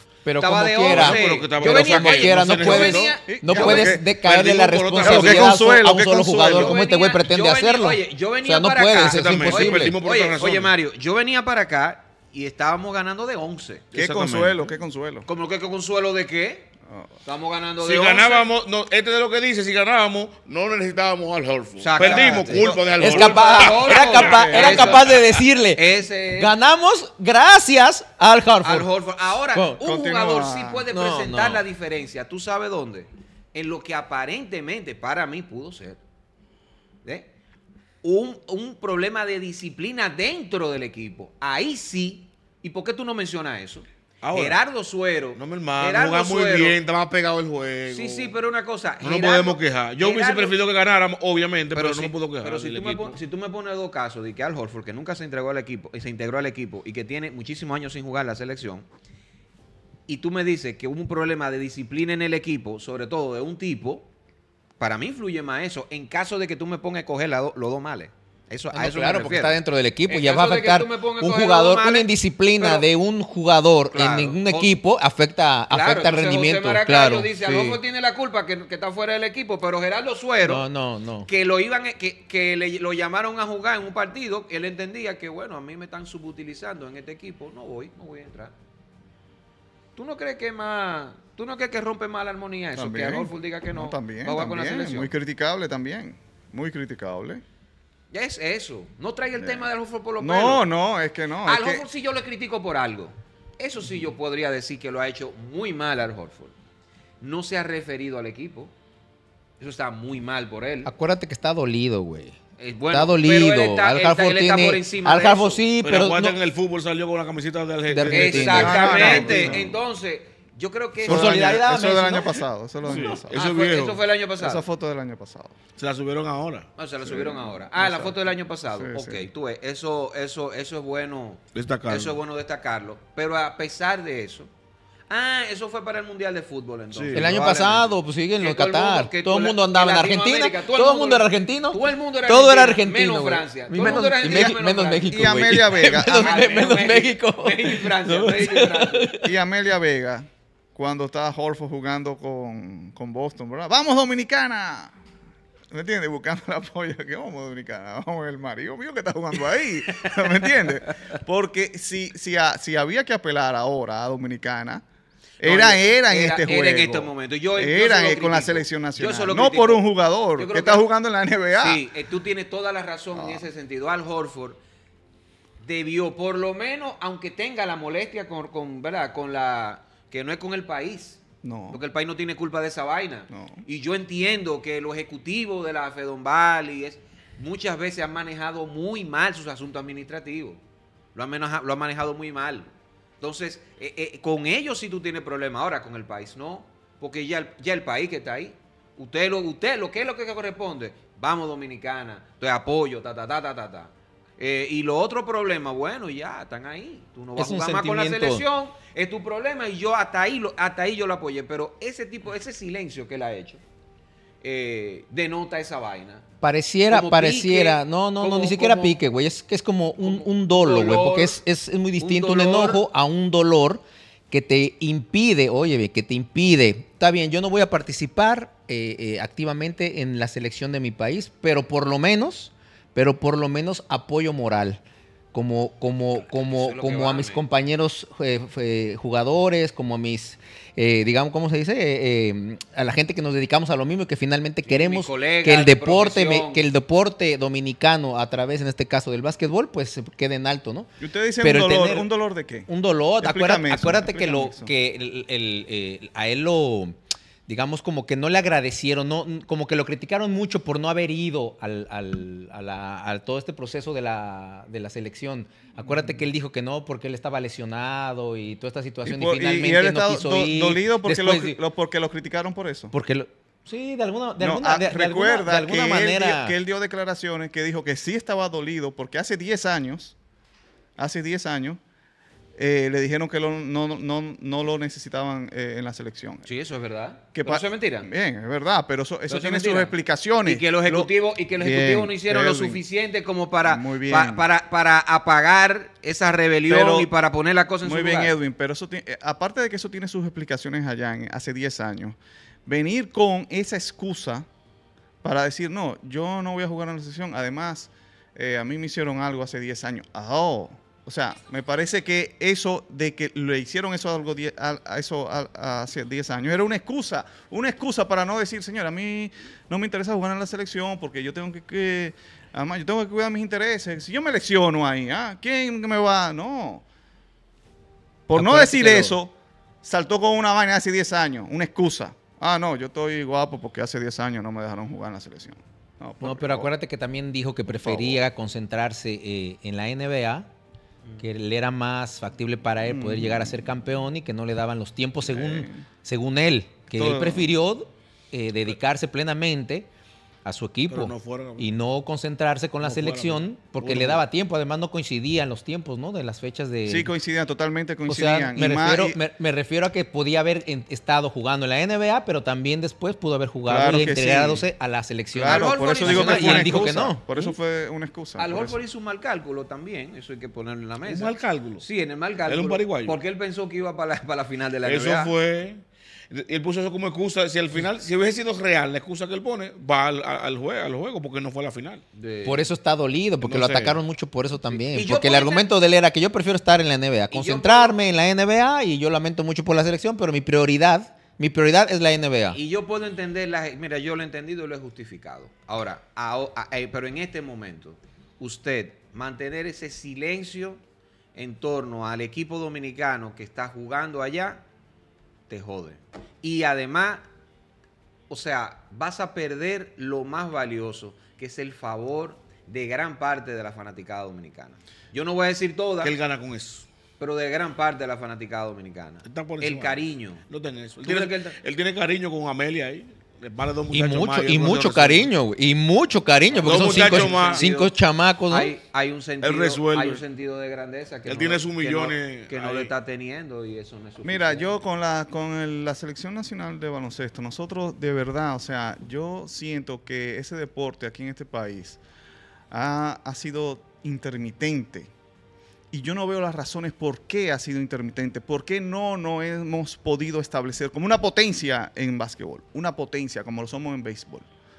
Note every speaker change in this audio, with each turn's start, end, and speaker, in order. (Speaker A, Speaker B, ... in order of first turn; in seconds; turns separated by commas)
Speaker A: 0.2-10.0, Speaker B: 0.4-4.0, Speaker C: 0.9-3.1, Speaker D: 2.8-4.1, Speaker C: 3.7-5.6, Speaker D: 5.0-6.8, Speaker B: 6.5-13.9, Speaker C: 9.1-10.7, Speaker C: 13.9-14.7, Speaker D: 13.9-15.3, Speaker B: 15.3-16.7, Speaker B: 17.2-18.5, Speaker C: 17.8-24.6, Speaker B: 21.8-25.2, Speaker D: 22.0-23.0, Speaker A: 22.9-28.9, Speaker D: 24.3-24.9, Speaker B: 25.8-26.5, Speaker B: 28.6-36.0, Speaker A: 29.5-29.8, Speaker D: 29.8-30.9, Speaker A: 30.9-31.6, Speaker B: 37.0-37.3, Speaker B: 38.0-46.8, Speaker C: 44.2-44.6, Speaker C: 45.4-48.4, Speaker B: 47.9-50.6, Speaker C: 49.0-53.2, Speaker B: 51.7-58.9, Speaker B: 60.1-64.1, Speaker B: 64.8-69.6, Speaker A: 68.7-77.7, Speaker B: 70.1-72.9, Speaker B: 73.9-74.7, Speaker B: 75.7-80.7, Speaker A: 80.4-81.3, Speaker B: 81.2-88.5, Speaker B: 90.0-95.1, Speaker D: 92.8-97.4, Speaker B: 98.1-100.7, Speaker D: 99.4-99.7, Speaker D: 100.2-101.9, Speaker B: 101.5-106.5, Speaker B: 107.2-108.7, Speaker B: 109.6-110.9, Speaker A: 110.8-112.4, Speaker B: 112.6-115.6, Speaker A: 112.9-116.4, Speaker C: 115.8-119.1, Speaker A: 117.9-119.5, Speaker B: 118.1-121.7, Speaker D: 118.5-119.8, Speaker D: 121.0-123.3, Speaker A: 121.1-123.2, Speaker C: 122.8-124.0, Speaker B: 123.3-124.6, Speaker D: 124.4-125.6, Speaker C: 125.8-126.7, Speaker B: 126.8-134.5, Speaker D: 127.0-128.2, Speaker D: 128.7-129.3, Speaker C: 131.6-132.2, Speaker B: 135.1-149.1, Speaker C: 136.9-137.3, Speaker A: 137.1-149.3, Speaker D: 144.2-146.3, Speaker D: 149.2-154.9, Speaker D: 155.7-164.8, Speaker B: 160.0-160.9, Speaker D: 165.4-171.8, Speaker B: 165.4-170.8, Speaker B: 171.5-174.6, Speaker D: 173.1-173.5, Speaker B: 175.6-190.6, Speaker D: 181.4-181.8, Speaker D: 183.3-183.6, Speaker B: 191.2-192.7, Speaker B: 193.2-213.6, Speaker A: 207.4-208.4, Speaker B: 214.4-216.2, Speaker A: 216.4-234.8, Speaker B: 216.9-219.0, Speaker B: 220.0-221.4, Speaker B: 222.0-222.8, Speaker A: 235.3-250.9, Speaker B: 236.2-237.4, Speaker B: 244.7-246.6, Speaker D: 251.0-252.7, Speaker A: 251.4-252.1, Speaker A: 252.7-256.9, Speaker D: 253.2-254.7, Speaker A: 257.5-271.6, Speaker D: 269.1-272.9, Speaker A: 272.9-276.6, Speaker D: 274.4-280.2, Speaker D: 281.0-281.8, Speaker D: 282.6-286.4, Speaker B: 286.4-288.1, Speaker D: 287.4-292.8, Speaker B: 289.3-298.3, Speaker D: 293.6-294.4, Speaker D: 296.7-297.1, Speaker D: 297.8-304.5, Speaker D: 305.2-326.8, Speaker D: 328.3-336.7, Speaker A: 328.3-329.2, Speaker A: 336.2-340.5, Speaker D: 337.7-338.2, Speaker A: 341.2-349.9, Speaker D: 342.9-343.7, Speaker D: 345.2-345.9, Speaker D: 346.9-347.5, Speaker A: 350.4-357.1, Speaker C: 350.9-351.7, Speaker C: 352.8-354.2, Speaker D: 356.9-359.2, Speaker A: 358.1-367.2, Speaker D: 363.7-364.7, Speaker D: 365.3-368.8, Speaker B: 365.4-367.6, Speaker B: 368.4-375.3, Speaker C: 371.0-371.8, Speaker C: 372.5-373.2, Speaker C: 374.8-382.0, Speaker B: 382.1-382.7, Speaker A: 382.4-392.6, Speaker C: 383.4-384.0, Speaker B: 384.7-385.7, Speaker B: 387.3-388.0, Speaker B: 392.5-400.8, Speaker B: 401.4-404.6, Speaker B: 405.5-407.2, Speaker B: 408.3-416.1, Speaker C: 416.0-416.9, Speaker B: 417.2-420.4, Speaker C: 419.2-425.3, Speaker B: 421.0-421.6, Speaker A: 423.9-428.7, Speaker B: 426.5-427.9, Speaker C: 426.6-427.6, Speaker B: 428.5-434.7, Speaker C: 429.4-430.2, Speaker C: 431.2-432.9, Speaker D: 434.2-442.0, Speaker D: 442.7-445.1, Speaker D: 445.9-454.5